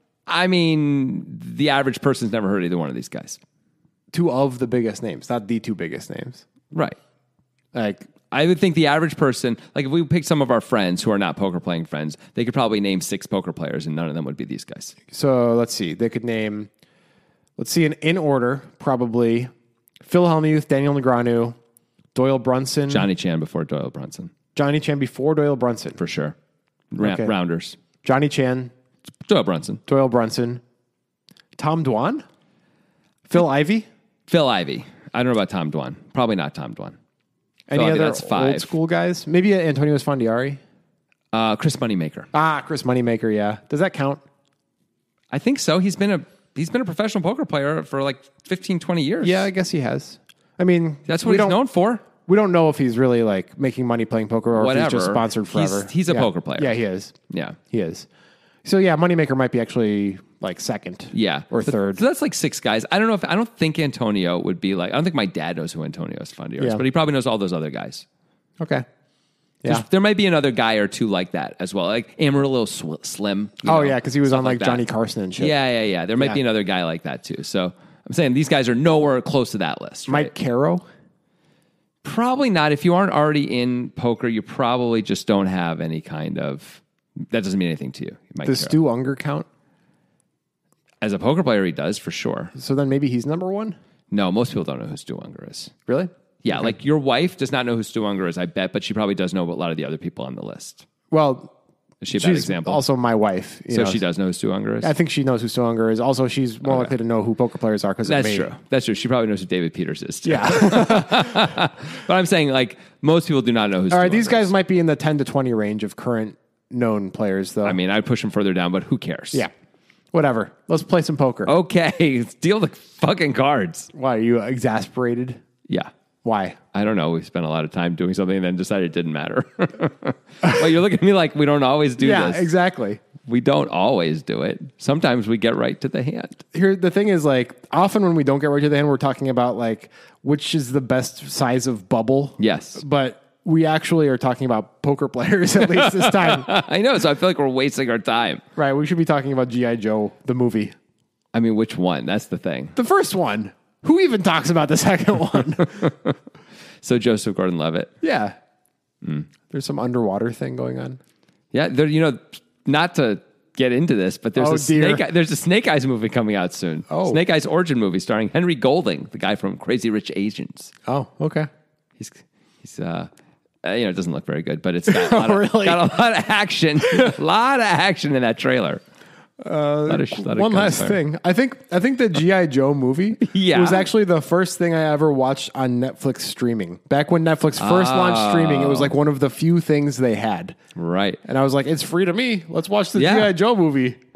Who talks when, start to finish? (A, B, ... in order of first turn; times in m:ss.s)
0:00.3-0:03.4 A
0:04.1-0:06.4 B
0:06.7-0:07.0 A
0:07.7-0:08.1 B
0:08.3-0:14.9 A
0:15.1-0:16.7 B
0:17.6-0:21.6 B
0:22.1-0:23.1 B
0:22.9-0:24.3 A
0:24.5-0:26.0 B
0:26.0-0:26.4 A
0:26.9-0:27.8 A
0:27.0-0:27.3 B
0:28.0-0:28.7 B
0:29.2-0:29.8 A
0:29.9-0:30.6 B
0:31.6-0:32.2 B
0:33.2-0:33.9 B
0:34.3-0:37.0 A
0:37.7-0:40.6 B
0:37.7-0:38.7 A
0:41.3-0:42.3 A
0:42.3-0:44.2 B
0:45.3-0:49.4 A
0:49.2-0:57.2 B
0:51.1-0:52.0 A
0:54.5-0:56.8 A
0:57.3-0:57.6 A
0:57.7-0:58.1 B
0:58.6-1:02.0 B
1:01.1-1:08.0 A
1:08.6-1:08.8 B
1:09.6-1:14.8 A
1:13.6-1:15.5 B
1:15.4-1:20.3 A
1:20.1-1:20.8 B
1:22.0-1:28.8 A
1:28.4-1:29.5 B
1:31.0-1:32.5 A
1:32.5-1:33.8 B
1:34.1-1:35.7 A
1:35.9-1:36.7 B
1:36.4-1:40.8 A
1:41.1-1:41.5 B
1:42.0-1:42.8 A
1:42.1-1:44.0 B
1:43.7-1:44.9 A
1:44.8-1:48.5 B
1:46.6-1:46.9 A
1:48.0-1:54.5 A
1:50.2-1:51.6 B
1:53.9-1:57.8 B
1:57.6-1:59.4 A
2:00.1-2:01.5 B
2:01.4-2:03.9 A
2:03.9-2:05.4 B
2:06.2-2:06.6 B
2:06.7-2:12.5 A
2:12.0-2:13.0 B
2:13.2-2:16.4 A
2:16.5-2:26.7 B
2:22.4-2:22.8 A
2:25.7-2:28.4 A
2:28.6-2:30.7 B
2:31.3-2:32.7 A
2:32.8-2:35.9 B
2:35.8-2:36.1 A
2:36.8-2:38.0 A
2:38.0-2:38.4 B
2:39.5-2:41.0 B
2:41.5-2:50.7 A
2:44.4-2:45.0 B
2:46.9-2:47.2 B
2:50.8-2:51.5 B
2:52.0-2:53.1 A
2:53.6-2:58.8 A
2:54.9-2:55.9 B
2:59.4-3:10.6 B
2:59.9-3:01.0 A
3:03.2-3:03.9 A
3:07.6-3:08.9 A
3:10.8-3:11.2 A
3:11.2-3:14.0 B
3:12.9-3:13.3 A